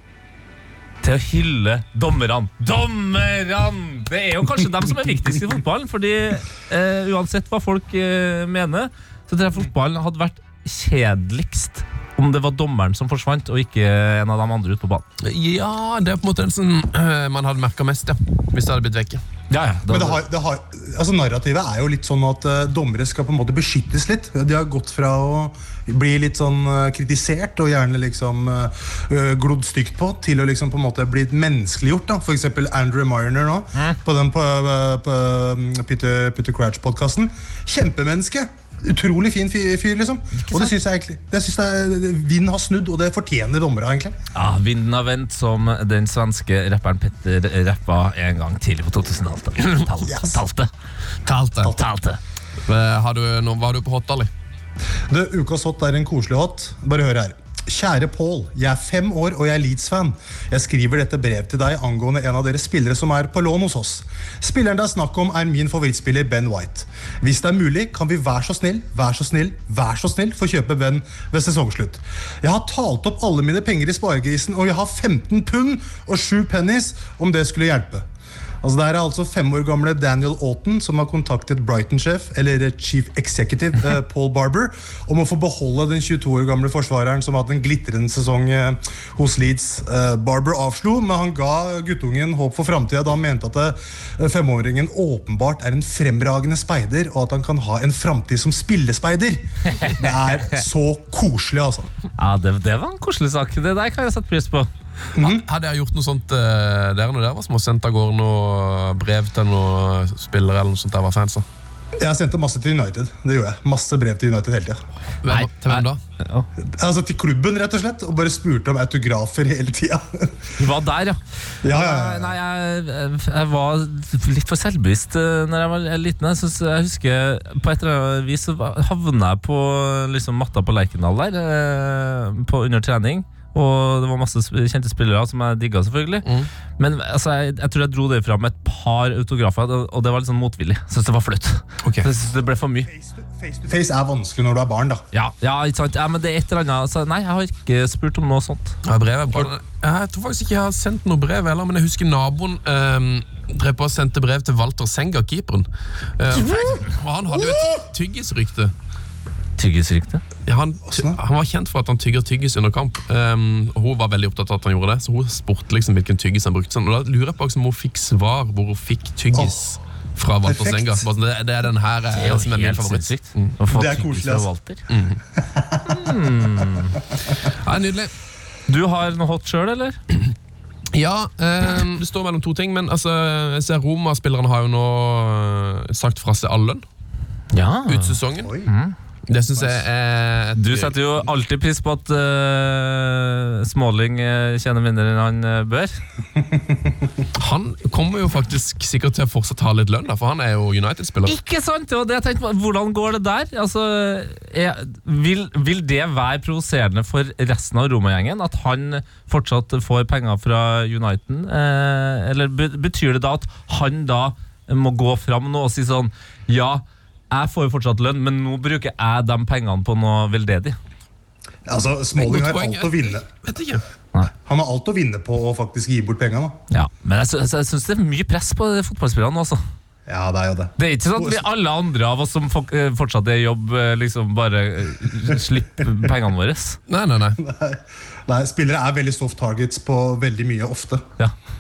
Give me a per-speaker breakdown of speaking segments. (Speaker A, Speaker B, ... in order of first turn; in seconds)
Speaker A: 1.0-15.1, 19.5-20.2, 40.4-40.7, 44.3-50.7, 51.7-52.2, 102.2-104.7, 115.3-116.5, 120.6-142.9, 145.1-148.8, 156.4-156.8, 159.6-160.2, 172.1-174.8, 175.9-177.0, 178.7-180.0, 187.5-188.9, 190.6-195.9, 201.2-220.8, 226.7-229.6, 230.8-236.8
Speaker B: 15.2-19.2, 51.2-51.7, 52.7-54.3, 105.2-111.4, 115.2-116.0, 136.2-136.5, 148.8-158.7, 160.4-173.6, 174.9-175.2, 177.4-178.1, 180.9-186.8, 187.9-188.5, 189.3-190.9, 197.4-201.3, 222.2-223.8, 236.9-237.4
Speaker C: 19.9-44.1, 50.0-50.4, 55.1-78.0, 78.6-101.9, 105.2-105.5, 112.0-114.8, 116.8-120.5, 121.6-122.4, 142.8-145.0, 160.9-161.2, 170.5-171.0, 173.7-174.5, 175.3-176.0, 188.4-188.7, 196.5-196.9, 221.7-223.2, 224.4-226.6, 230.1-231.5, 237.4-241.0